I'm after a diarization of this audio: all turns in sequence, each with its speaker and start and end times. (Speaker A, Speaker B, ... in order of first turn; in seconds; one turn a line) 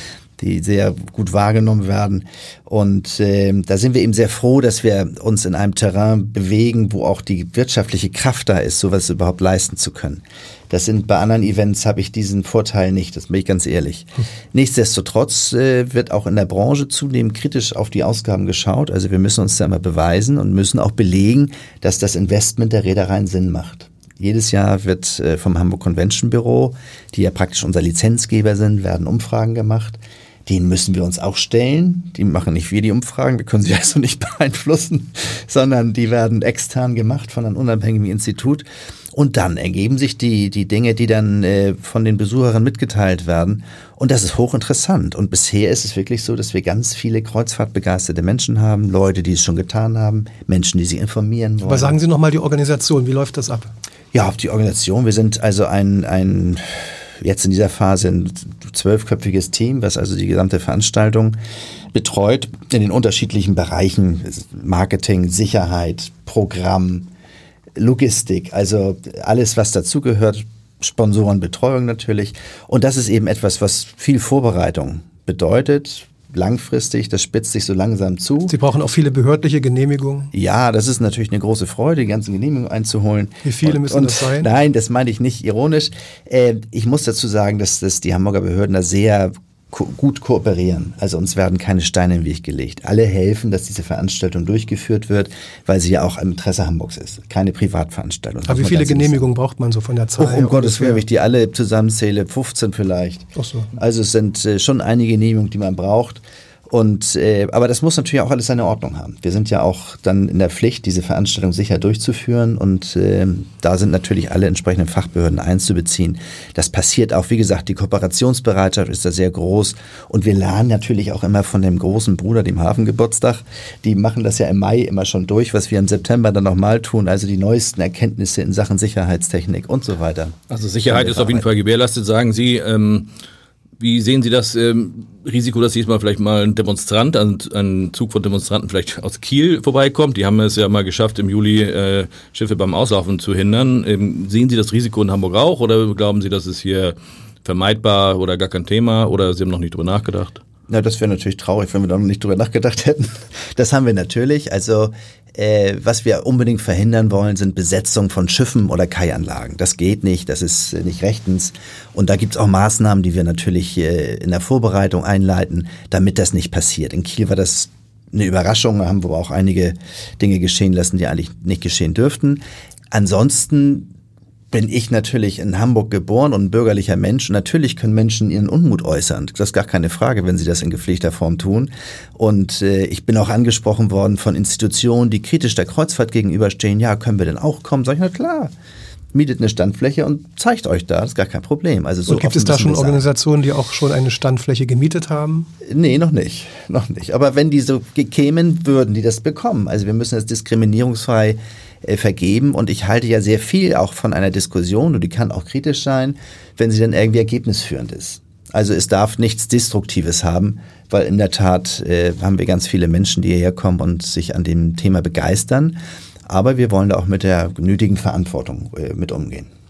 Speaker A: 0.4-52.0
Speaker B: 51.6-53.7
Speaker A: 54.1-61.4
Speaker A: 61.9-67.1
Speaker A: 67.8-78.5
Speaker B: 78.5-80.3
Speaker A: 80.3-99.3
Speaker B: 83.4-84.5
Speaker B: 98.5-101.0
Speaker A: 100.2-131.4
Speaker B: 103.4-103.7
Speaker C: 130.5-133.1
Speaker C: 133.8-150.4
Speaker A: 150.7-173.9
Speaker A: 174.5-188.5
Speaker A: 189.1-193.1
Speaker B: 192.1-195.5
Speaker A: 195.6-219.5